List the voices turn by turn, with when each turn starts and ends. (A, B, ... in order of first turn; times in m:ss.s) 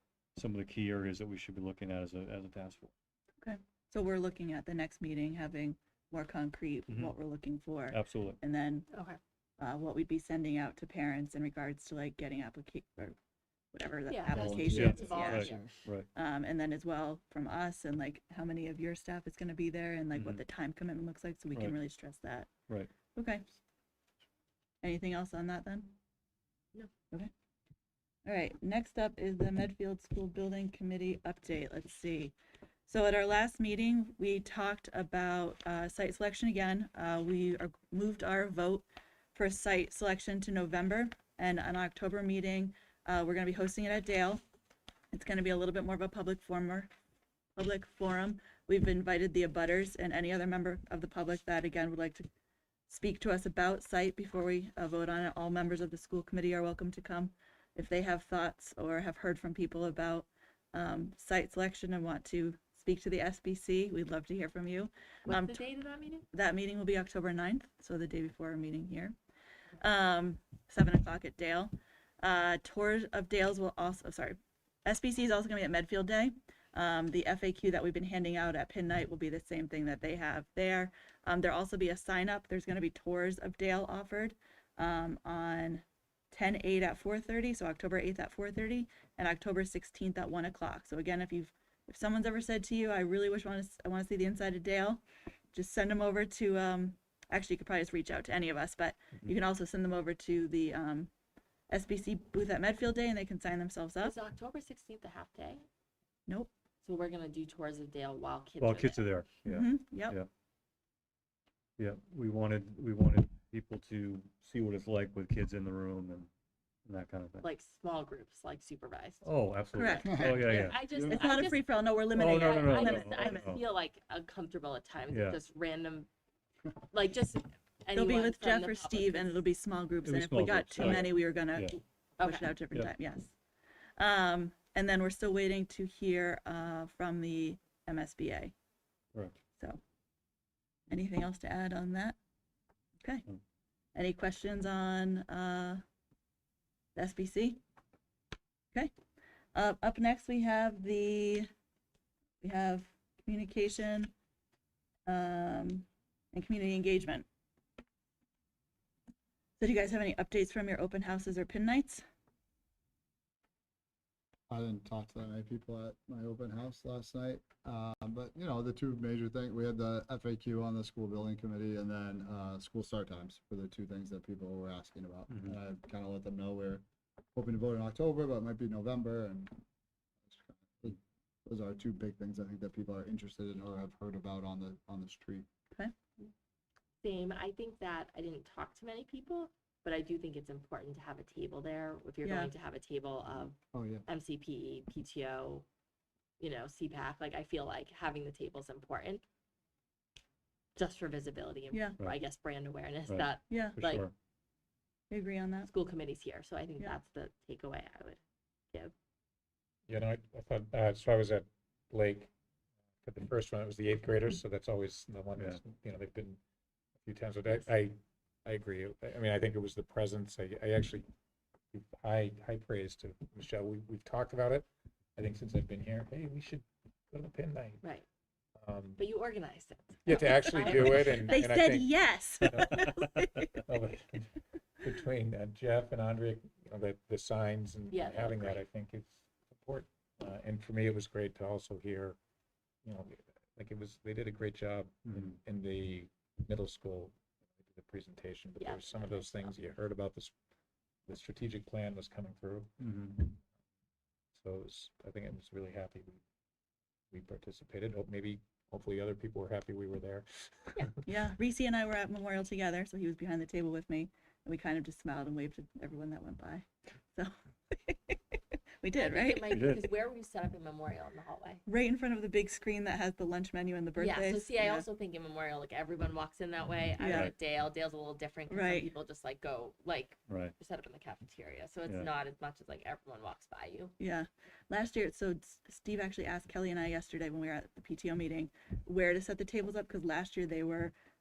0:00.4-0:02.9 A
0:03.4-0:08.9 B
0:06.9-0:07.1 A
0:07.9-0:08.4 A
0:08.9-0:09.2 C
0:09.6-0:13.2 B
0:13.7-0:15.5 B
0:14.1-0:15.7 C
0:14.3-0:15.7 D
0:14.7-0:16.1 A
0:16.1-0:22.5 B
0:20.1-0:20.4 A
0:23.1-0:23.5 B
0:24.8-0:26.0 B
0:28.2-0:32.3 B
0:32.9-0:44.4 B
0:45.1-0:46.9 B
0:47.6-0:52.3 B
0:52.9-1:05.6 B
1:05.2-1:06.2 C
1:06.3-1:09.1 B
1:09.8-1:35.0 B
1:35.5-1:41.1 B
1:41.7-1:44.2 B
1:44.0-1:45.6 C
1:46.8-1:49.0 C
1:48.6-1:50.3 A
1:49.4-1:50.2 B
1:51.8-1:56.3 A
1:56.8-1:57.5 A
1:57.4-2:01.6 C
1:59.2-2:00.8 A
1:59.8-2:00.0 B
2:00.0-2:01.3 D
2:01.0-2:03.6 B
2:02.1-2:03.6 A
2:02.3-2:06.1 C
2:05.1-2:05.4 A
2:06.9-2:09.4 C
2:07.9-2:13.3 B
2:10.0-2:11.8 A
2:12.2-2:12.5 C
2:14.0-2:18.5 B
2:19.1-2:19.4 A
2:20.9-2:22.2 B
2:23.9-2:25.8 B
2:26.9-2:27.6 B
2:29.5-2:31.5 B
2:32.4-2:34.1 B
2:35.0-2:37.2 B
2:39.6-2:42.0 B
2:44.5-2:59.6 D
2:55.3-2:55.6 A
3:00.2-3:05.5 D
3:07.0-3:13.6 C
3:12.2-3:12.5 B
3:13.7-3:14.0 D
3:14.1-3:15.6 C
3:16.4-3:19.2 C
3:20.7-3:24.1 C
3:23.1-3:24.1 A
3:23.5-3:23.8 B
3:25.1-3:25.7 B
3:25.6-3:28.2 C
3:29.9-3:32.3 E
3:33.0-3:36.4 E
3:37.0-3:41.0 E
3:41.7-3:47.8 E
3:48.6-3:49.0 E
3:49.0-3:51.4 C
3:50.0-4:02.2 E
3:50.6-3:53.6 B
3:57.9-3:58.6 C
4:02.8-4:10.3 E
4:05.0-4:05.4 A
4:08.6-4:09.6 C
4:11.1-4:13.4 E
4:12.8-4:13.3 A
4:14.3-4:16.2 E
4:17.1-4:20.9 E
4:21.0-4:29.7 B
4:29.0-4:31.6 C
4:29.5-4:29.8 A
4:31.7-4:34.8 B
4:34.0-4:43.9 C
4:37.0-4:37.3 B
4:37.1-4:37.3 A
4:38.5-4:38.9 B
4:40.3-4:40.5 A
4:44.0-4:50.9 B